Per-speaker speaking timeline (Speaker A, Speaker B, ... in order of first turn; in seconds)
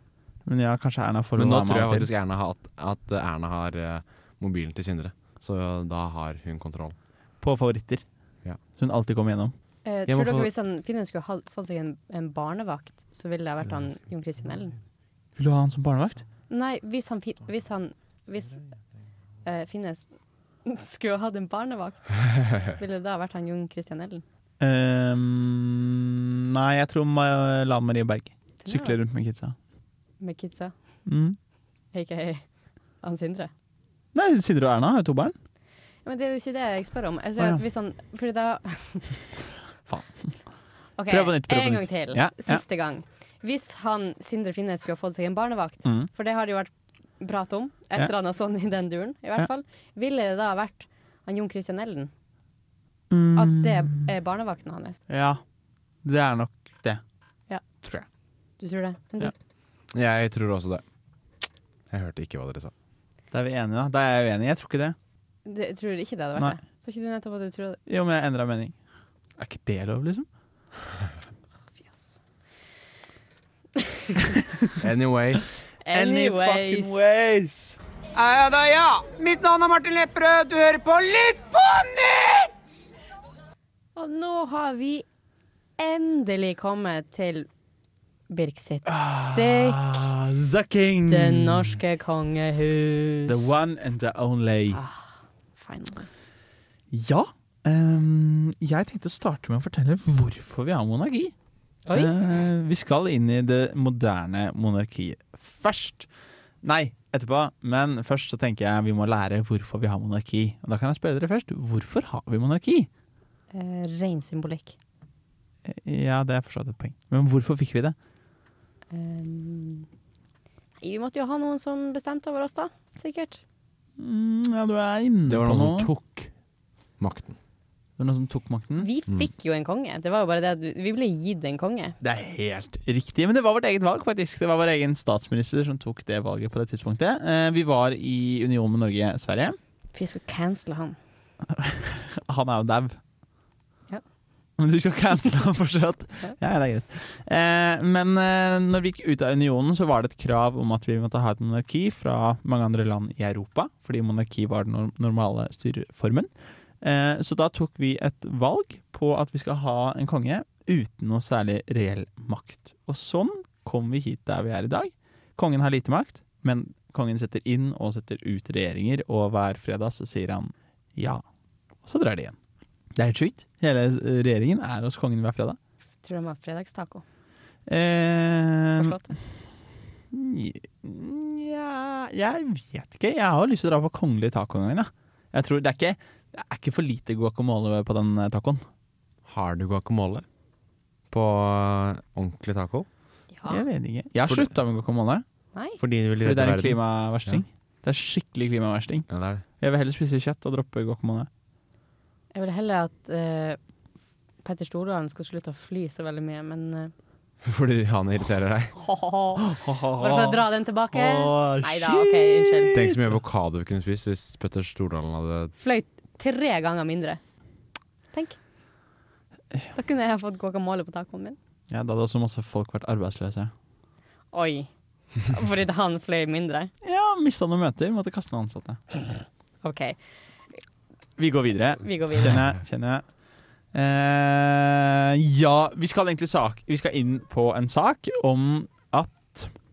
Speaker A: 0.5-2.1, 7.4-8.0, 8.8-9.5, 15.4-16.2, 24.6-29.6, 31.1-31.4, 34.1-35.4, 41.1-42.6, 53.1-54.1, 55.1-55.4, 56.0-57.0, 63.3-65.0, 67.9-68.7, 69.4-70.3, 75.9-77.8, 88.9-91.8, 93.3-94.8, 96.9-101.3, 101.9-106.1, 106.6-112.9, 115.7-117.9, 124.0-125.9, 128.0-128.9, 132.0-139.6, 141.5-143.0, 144.6-156.3, 156.8-171.2, 171.8-172.4, 172.9-175.6, 177.7-178.9, 180.1-188.6, 193.5-195.2, 196.2-199.1, 199.6-201.3, 209.4-213.1, 221.7-223.5, 226.8-229.0, 231.2-233.0, 233.7-239.5
Speaker B: 1.4-7.0, 10.1-10.5, 59.9-60.8, 61.9-62.7, 74.8-75.7, 125.3-126.3, 127.0-127.4, 189.2-190.2, 191.1-192.9, 194.2-194.5, 195.8-197.4, 199.1-199.4, 207.4-208.8, 212.7-215.5
Speaker C: 9.8-14.8, 16.5-18.6, 19.4-20.1, 20.6-24.2, 28.6-29.0, 30.2-30.7, 31.9-32.4, 33.0-33.5, 36.0-39.1, 41.0-52.1, 53.4-55.0, 58.6-59.3, 65.4-67.8, 71.8-72.2, 73.8-74.4, 75.8-77.3, 84.0-85.0, 85.8-87.5, 88.3-90.1, 91.1-93.5, 94.7-96.1, 101.9-102.1, 113.5-114.8, 118.9-119.9, 120.8-123.4, 128.8-131.9, 139.9-141.0, 176.0-177.0, 178.8-179.1, 193.3-193.6, 202.3-203.6, 204.4-206.9, 208.8-212.8, 215.6-217.2, 219.7-221.4, 224.3-226.7, 229.6-230.0, 231.8-232.4
Speaker D: 78.2-82.5